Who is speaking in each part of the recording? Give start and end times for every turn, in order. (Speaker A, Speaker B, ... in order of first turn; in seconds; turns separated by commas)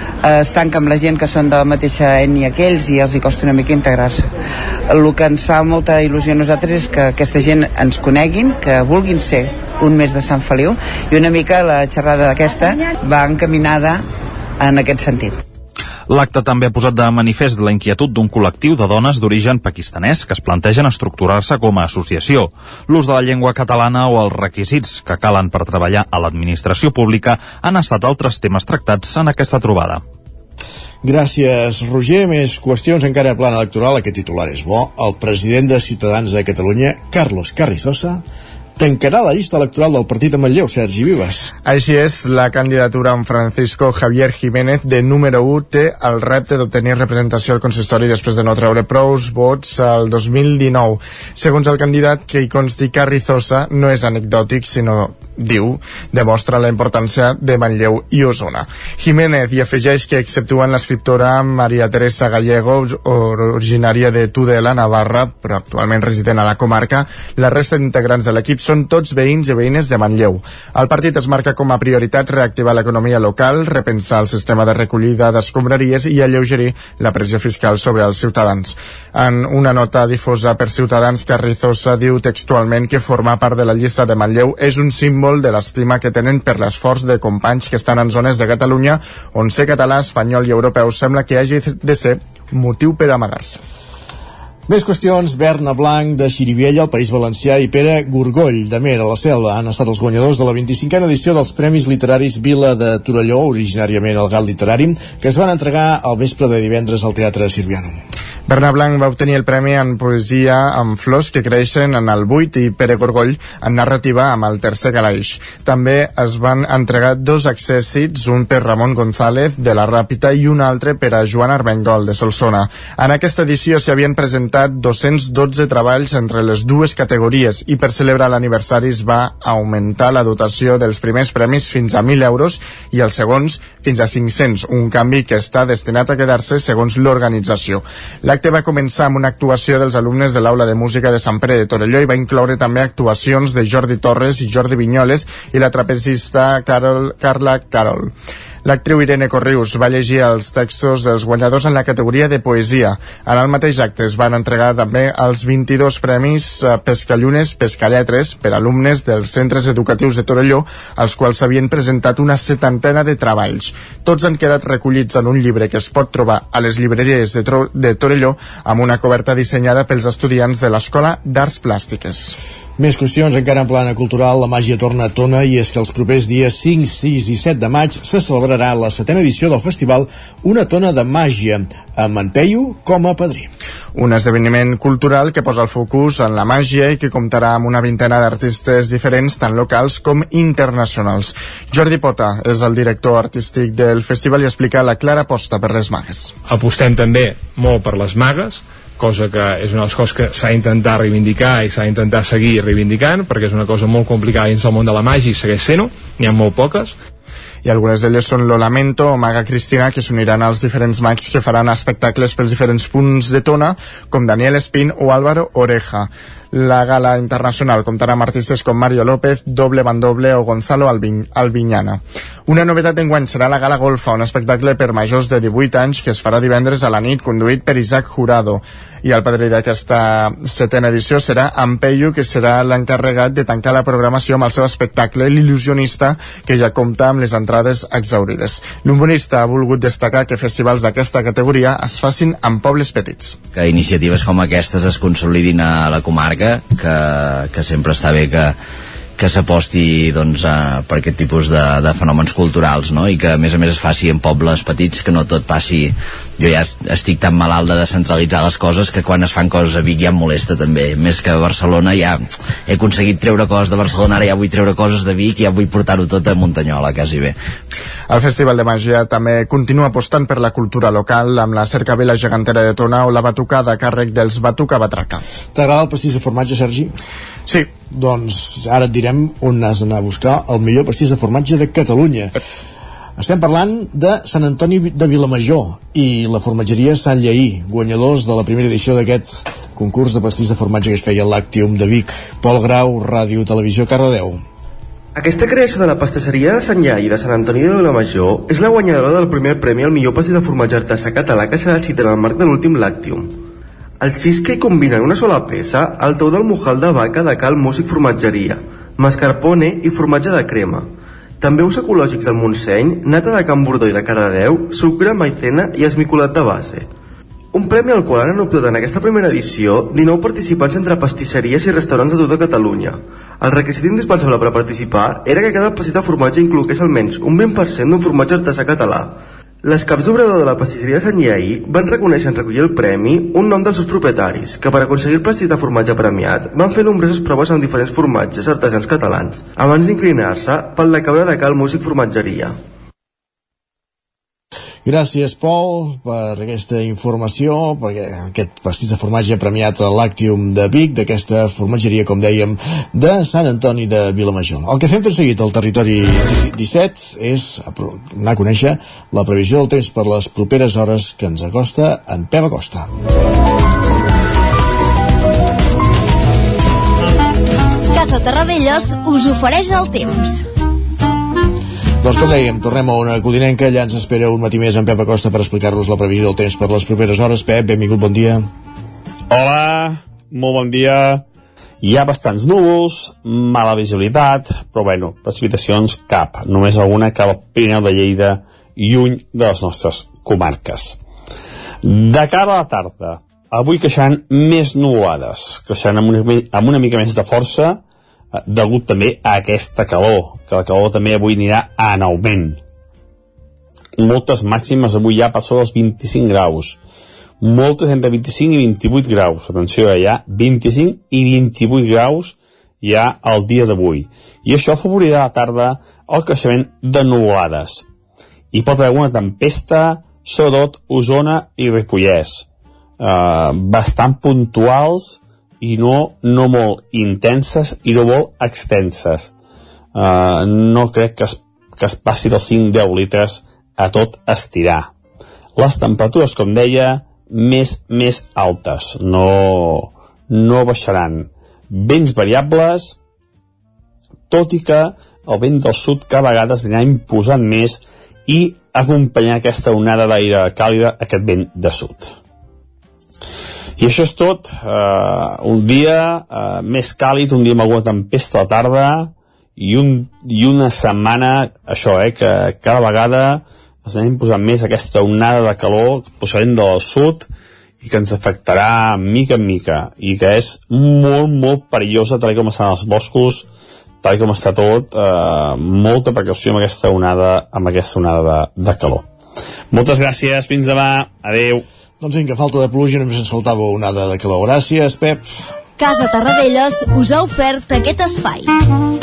Speaker A: 0.2-4.2, Speaker A: 4.9-14.0, Speaker A: 14.6-15.4, Speaker B: 16.1-30.0, Speaker C: 31.0-38.2, Speaker C: 38.8-41.5, Speaker D: 41.6-93.6, Speaker C: 94.7-108.0, Speaker D: 108.5-148.1, Speaker D: 148.6-172.4, Speaker C: 172.8-183.5, Speaker D: 183.9-196.3, Speaker E: 196.6-197.8, Speaker E: 198.5-200.2, Speaker E: 201.1-202.2, Speaker E: 202.8-204.3, Speaker E: 206.2-206.8, Speaker D: 207.6-243.4, Speaker F: 243.5-248.5, Speaker F: 249.2-267.4, Speaker D: 268.1-275.2, Speaker C: 275.5-276.9, Speaker C: 277.9-282.3, Speaker C: 283.2-294.4, Speaker G: 295.1-303.4, Speaker G: 304.0-310.9, Speaker G: 311.4-316.9, Speaker G: 317.5-342.6, Speaker C: 344.8-362.9, Speaker H: 367.9-370.4, Speaker C: 372.0-378.4, Speaker I: 379.3-381.2, Speaker I: 381.8-391.0, Speaker I: 391.8-397.8, Speaker I: 398.3-402.6, Speaker I: 404.0-406.8, Speaker I: 407.4-417.9, Speaker I: 418.5-422.5, Speaker I: 423.0-429.3, Speaker I: 429.9-434.9, Speaker I: 435.6-442.9, Speaker I: 444.3-452.1, Speaker I: 453.8-467.3, Speaker I: 467.8-473.5, Speaker I: 474.0-479.1, Speaker I: 479.7-481.6, Speaker C: 482.0-485.2, Speaker H: 485.8-488.5